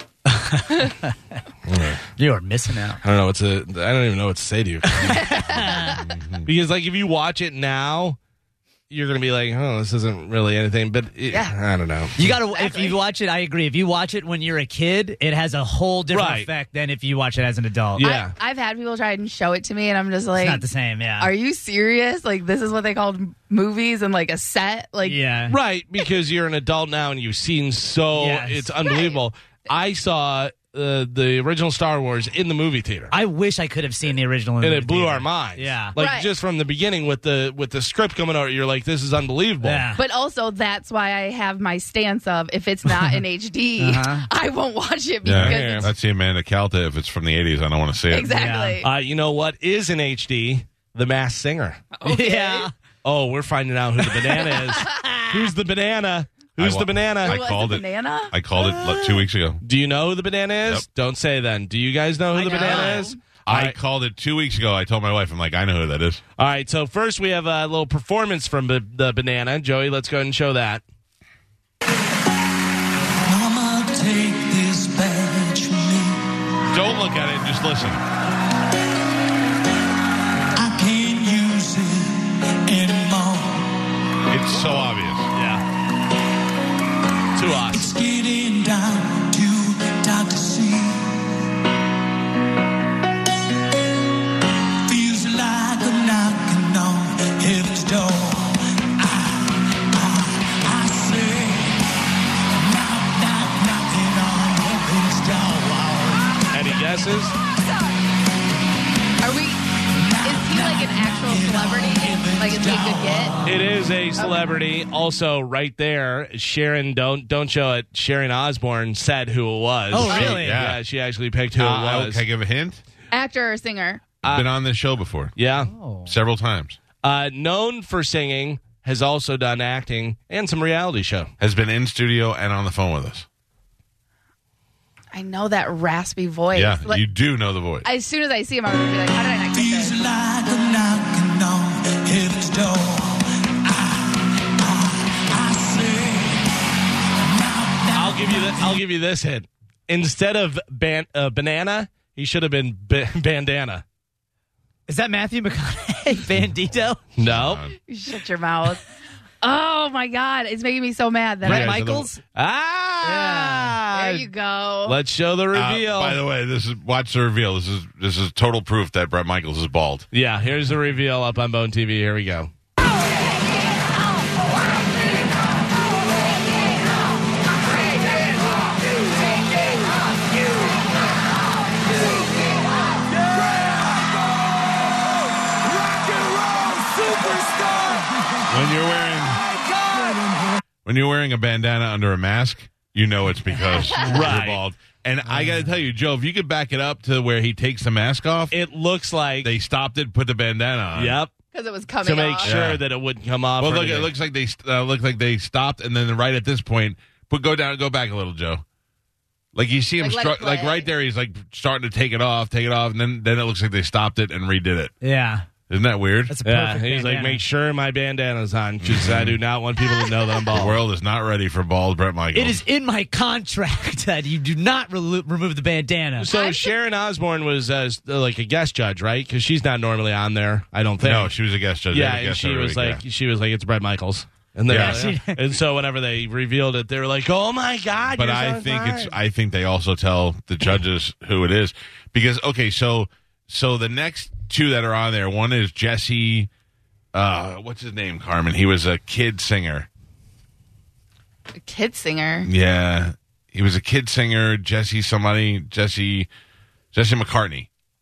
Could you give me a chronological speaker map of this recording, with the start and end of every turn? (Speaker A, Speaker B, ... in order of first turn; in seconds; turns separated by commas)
Speaker A: 0.3-1.1, Speaker B: 1.7-2.0, Speaker A: 2.2-3.0, Speaker B: 3.0-5.3, Speaker A: 4.9-6.0, Speaker C: 5.1-6.0, Speaker D: 6.0-6.5, Speaker B: 6.5-8.2, Speaker B: 8.9-12.2, Speaker A: 12.2-18.0, Speaker C: 12.4-13.0, Speaker B: 16.1-16.5, Speaker B: 18.0-18.3, Speaker C: 18.0-20.7, Speaker A: 20.4-21.3, Speaker C: 21.2-25.2, Speaker A: 25.0-25.6, Speaker B: 25.5-33.1, Speaker A: 28.1-28.7, Speaker C: 28.8-29.2, Speaker A: 33.1-36.0, Speaker B: 34.6-39.9, Speaker C: 36.0-36.3, Speaker A: 39.6-40.0, Speaker C: 40.0-45.9, Speaker A: 43.8-44.2, Speaker D: 45.2-48.3, Speaker B: 45.3-45.9, Speaker C: 48.1-48.9, Speaker A: 48.2-48.8, Speaker B: 48.8-51.8, Speaker C: 51.9-52.7, Speaker A: 52.0-52.7, Speaker B: 53.0-57.4, Speaker C: 54.2-55.0, Speaker D: 56.6-59.6, Speaker C: 57.2-58.4, Speaker B: 59.1-63.8, Speaker C: 62.3-63.2, Speaker D: 63.5-66.2, Speaker B: 66.4-70.8, Speaker E: 73.2-76.3, Speaker D: 76.7-78.0, Speaker E: 80.6-83.7, Speaker D: 84.3-85.3, Speaker B: 85.3-85.6, Speaker B: 87.4-87.9, Speaker E: 87.7-91.2, Speaker E: 94.9-106.4, Speaker B: 106.5-107.3, Speaker C: 109.2-109.6, Speaker E: 109.9-113.6, Speaker C: 110.2-113.3, Speaker B: 113.4-122.2, Speaker C: 114.2-114.5, Speaker A: 119.9-120.6, Speaker C: 120.0-120.4, Speaker D: 120.1-120.8, Speaker D: 121.6-122.8, Speaker C: 123.1-124.2, Speaker D: 124.2-125.4, Speaker B: 125.4-125.7, Speaker A: 125.6-126.1, Speaker D: 126.1-126.8, Speaker B: 127.0-131.3, Speaker D: 131.4-133.3, Speaker C: 135.1-137.0, Speaker D: 136.5-137.9, Speaker C: 137.8-139.9, Speaker E: 139.5-146.6, Speaker E: 147.2-148.8, Speaker B: 147.9-153.8, Speaker A: 154.9-157.0, Speaker B: 157.2-157.7, Speaker D: 157.2-157.8, Speaker C: 157.9-158.8, Speaker C: 159.4-161.8, Speaker B: 161.4-164.3, Speaker A: 161.4-162.2, Speaker A: 163.0-163.8, Speaker C: 163.9-165.0, Speaker B: 164.8-166.2, Speaker D: 165.5-170.1, Speaker B: 170.1-172.5, Speaker E: 186.2-186.7, Speaker D: 188.5-189.4, Speaker D: 190.8-198.5, Speaker A: 194.0-194.4, Speaker B: 194.1-194.6, Speaker A: 195.3-195.7, Speaker B: 198.5-199.5, Speaker D: 199.4-201.2, Speaker B: 200.9-201.3, Speaker C: 201.5-202.5, Speaker B: 202.0-204.1, Speaker D: 202.4-202.8, Speaker D: 203.6-208.6, Speaker D: 209.5-214.9, Speaker C: 210.0-210.9, Speaker A: 215.0-215.5, Speaker D: 215.7-216.3, Speaker A: 216.3-217.4, Speaker B: 216.4-220.8, Speaker D: 218.8-219.4, Speaker D: 220.5-222.6, Speaker A: 222.3-226.3, Speaker B: 226.2-231.3, Speaker C: 226.3-226.7, Speaker D: 231.0-233.0, Speaker B: 231.9-239.2, Speaker D: 234.7-235.1, Speaker A: 234.7-235.4, Speaker D: 238.1-246.5, Speaker D: 247.1-249.9, Speaker C: 251.6-252.5, Speaker D: 252.5-256.3, Speaker D: 256.9-257.7